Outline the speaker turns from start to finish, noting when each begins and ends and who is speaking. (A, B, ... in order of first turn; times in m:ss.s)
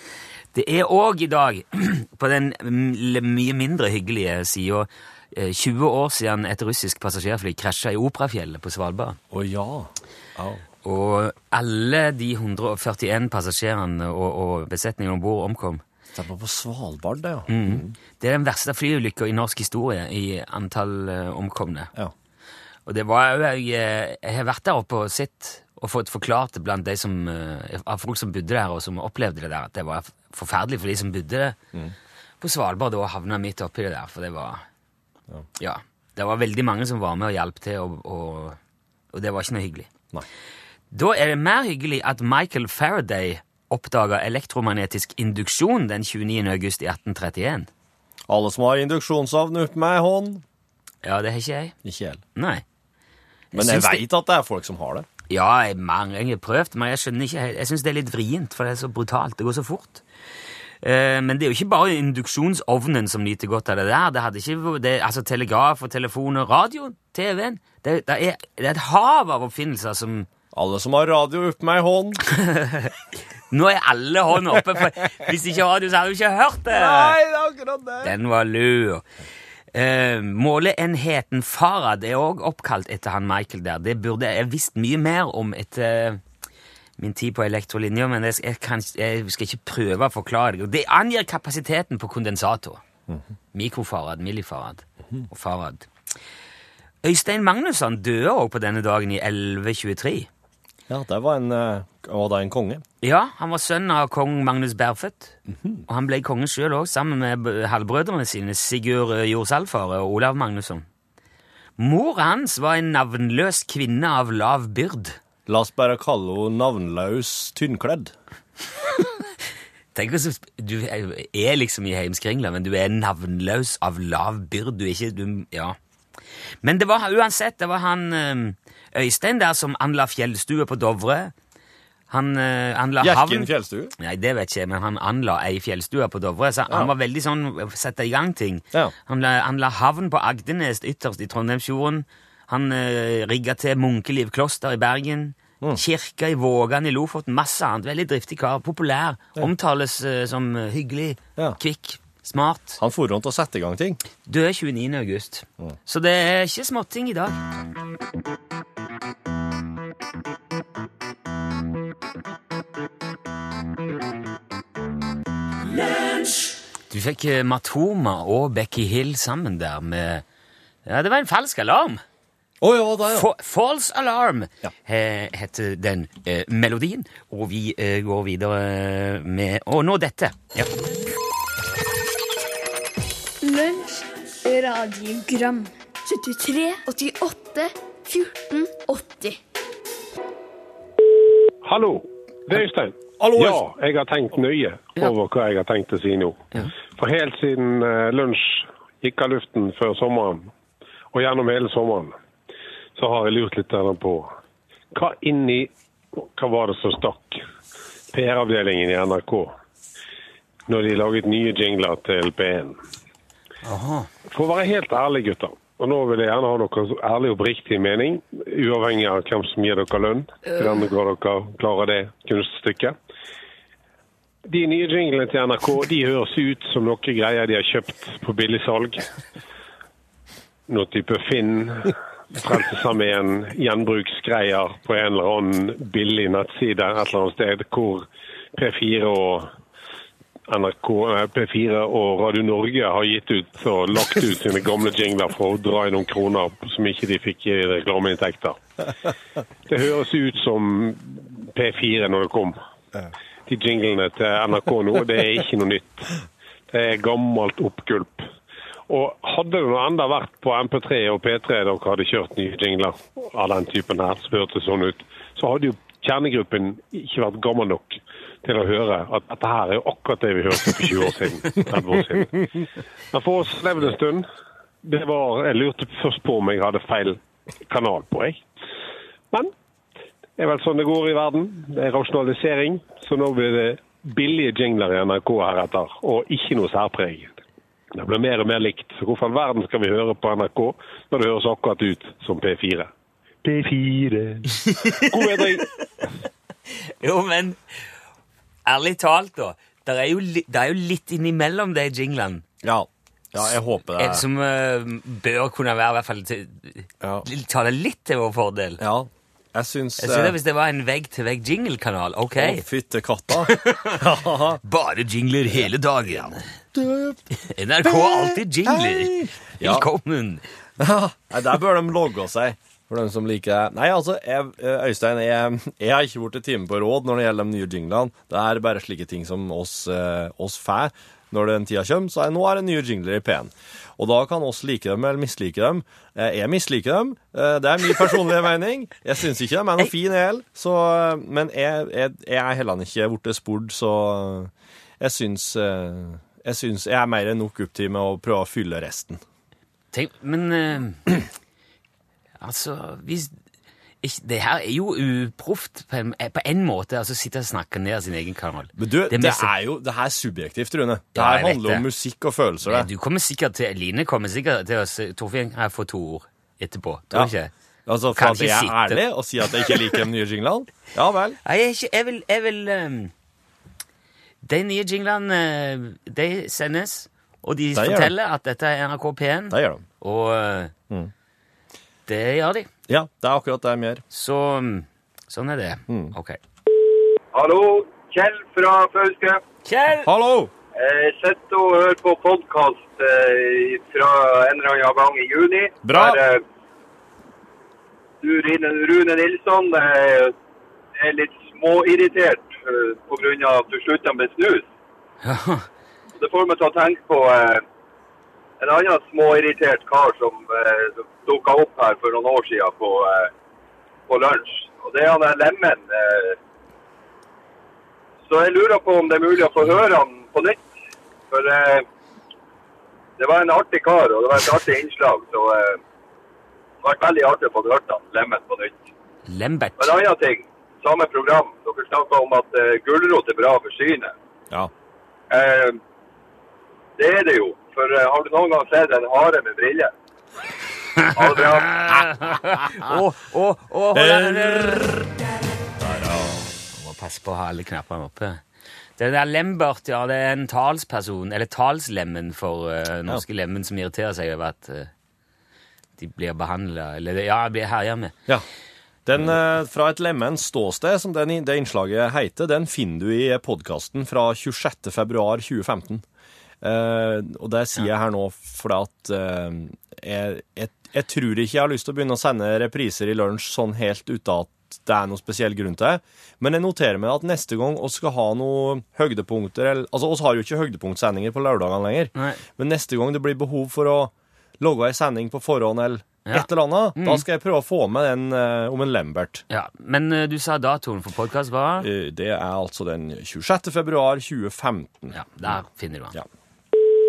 0:00.5-0:09.2 A
0:09.3-0:10.6 B
0:10.8-0:15.8 A
0:16.1-0:17.9 B
0:17.5-0:21.9 A
0:22.8-0:31.6 A
0:32.4-0:34.6 A
0:35.6-0:38.6 A
0:39.1-0:39.9 A
0:40.9-0:47.7 A
0:48.3-0:50.4 B
0:51.0-0:51.7 A
0:51.8-0:52.2 B
0:52.4-0:52.6 A
0:53.5-0:54.0 A
0:53.5-0:55.1 B
0:55.3-1:00.0 A
1:00.8-1:10.3 A
1:10.5-1:12.2 B
1:12.3-1:12.9 A
1:13.5-1:17.2 A
1:16.7-1:18.1 B
1:18.0-1:19.0 A
1:19.7-1:26.2 A
1:27.0-1:32.8 A
1:33.5-1:35.9 A
1:37.0-1:40.3 A
1:40.9-1:42.8 B
1:43.0-1:50.8 A
1:45.5-1:45.8 B
1:51.8-1:55.2 A
1:55.4-1:58.1 B
1:59.9-2:05.8 A
2:06.6-2:11.3 A
2:12.1-2:32.8 A
2:13.0-2:13.9 B
2:32.8-2:34.0 B
2:34.2-2:37.4 A
2:46.9-2:50.2 A
2:50.8-2:52.0 A
2:52.6-2:53.3 B
2:53.1-3:00.7 A
3:03.4-3:09.4 C
3:11.6-3:20.5 D
3:13.2-3:13.6 B
3:21.1-3:22.1 D
3:23.0-3:24.3 D
3:24.9-3:27.4 D
3:28.1-3:29.5 D
3:30.7-3:32.8 D
3:33.6-3:34.1 A
3:34.3-3:42.9 D
3:40.5-3:40.8 A
3:44.4-3:49.0 D
3:50.7-3:59.5 D
4:00.5-4:08.6 D
4:09.7-4:12.6 D
4:13.5-4:16.2 D
4:16.7-4:18.3 D
4:18.9-4:34.2 D
4:34.8-4:38.4 D
4:40.4-4:47.4 D
4:47.9-4:52.9 D
4:53.4-4:55.6 D
4:54.6-4:55.6 A
4:55.1-4:55.6 B
4:56.8-4:57.6 A
4:58.6-5:02.4 A
5:02.6-5:04.2 B
5:04.0-5:08.8 A
5:08.8-5:10.4 B
5:10.0-5:12.6 A
5:12.4-5:14.6 B
5:13.5-5:14.0 A
5:14.6-5:16.5 A
5:15.5-5:17.2 B
5:17.4-5:20.4 A
5:17.8-5:19.8 B
5:20.8-5:49.2 B
5:49.9-5:51.1 A
5:52.4-5:53.3 A
5:54.0-5:59.5 A
5:58.8-6:02.9 B
6:01.1-6:01.8 A
6:02.6-6:07.5 A
6:07.8-6:11.4 B
6:08.1-6:09.0 A
6:11.4-6:13.1 A
6:14.4-6:20.7 A
6:17.7-6:18.1 B
6:19.5-6:19.8 B
6:22.1-6:22.7 A
6:22.9-6:24.0 B
6:24.1-6:26.4 A
6:25.9-6:26.1 B
6:27.3-6:29.4 E
6:29.6-6:30.1 A
6:30.0-6:30.5 B
6:30.7-6:36.4 E
6:35.8-6:36.2 B
6:38.2-6:40.3 E
6:41.0-6:44.7 E
6:45.2-6:45.7 A
6:46.2-6:47.6 E
6:48.6-6:53.3 E
6:54.1-6:56.4 E
6:58.3-7:00.7 E
7:01.3-7:01.8 E
7:03.2-7:05.8 E
7:06.8-7:08.8 E
7:09.3-7:10.0 A
7:09.8-7:14.1 E
7:15.3-7:15.8 E
7:17.0-7:19.9 E
7:21.0-7:24.9 A
7:21.1-7:22.0 E
7:23.9-7:25.1 B
7:25.8-7:26.4 B
7:26.7-7:28.4 A
7:29.0-7:34.9 A
7:36.0-7:38.1 A
7:39.0-7:46.0 B
7:46.6-8:09.4 B
8:02.1-8:02.4 A
8:06.2-8:07.2 A
8:09.5-8:11.9 A
8:11.8-8:15.5 B
8:15.1-8:16.1 A